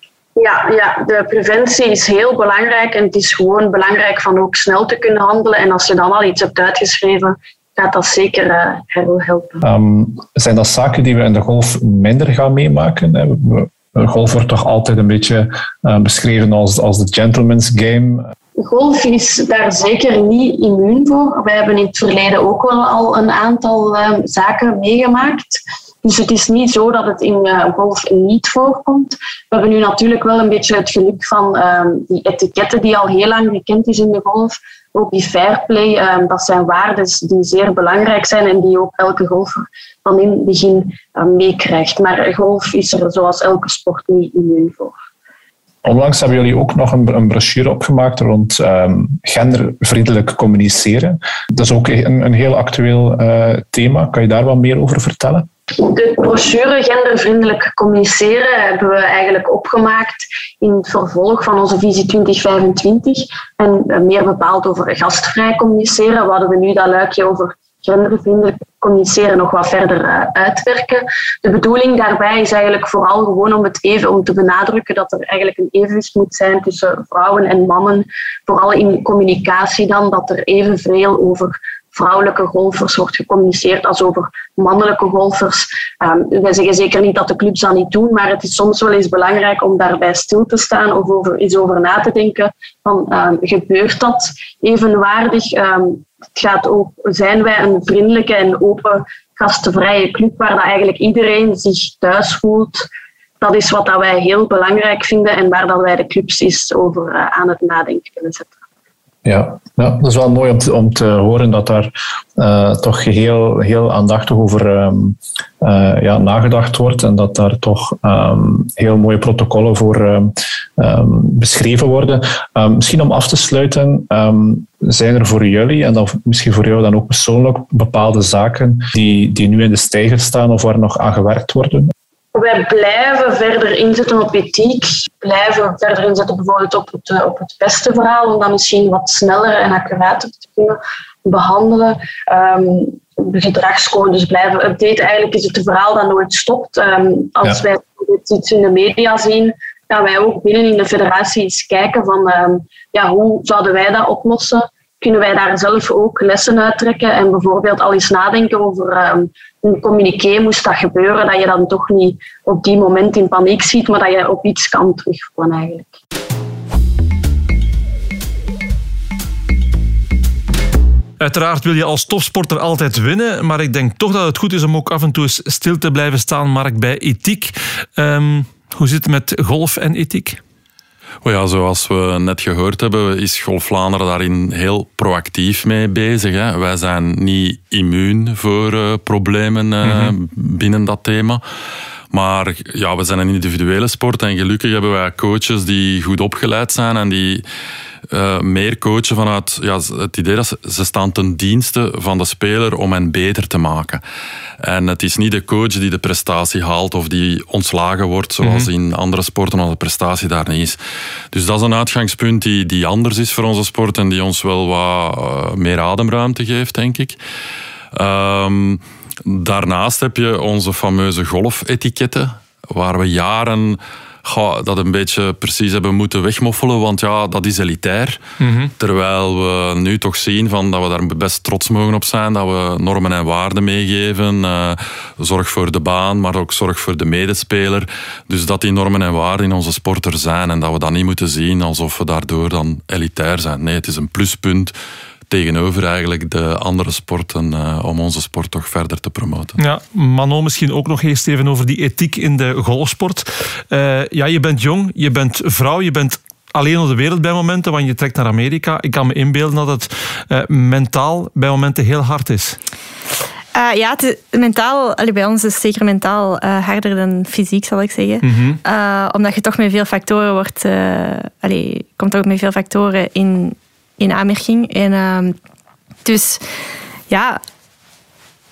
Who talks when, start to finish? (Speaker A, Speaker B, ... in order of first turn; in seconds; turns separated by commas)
Speaker A: 0.3-9.6, Speaker B: 9.6-18.2, Speaker A: 18.6-45.0, Speaker B: 45.8-55.5, Speaker A: 55.7-102.9, Speaker A: 103.4-108.6, Speaker B: 109.2-131.9, Speaker A: 132.3-166.0, Speaker C: 171.2-180.4, Speaker D: 181.2-191.4, Speaker C: 189.8-190.1, Speaker D: 192.1-197.4, Speaker D: 198.1-204.0, Speaker D: 204.6-210.8, Speaker C: 208.4-208.7, Speaker D: 211.3-217.2, Speaker D: 217.9-228.2, Speaker C: 228.4-228.7, Speaker D: 228.8-244.7, Speaker D: 245.3-249.6, Speaker C: 249.6-262.6, Speaker E: 263.5-275.3, Speaker C: 268.2-268.6, Speaker E: 276.0-276.4, Speaker E: 277.1-277.4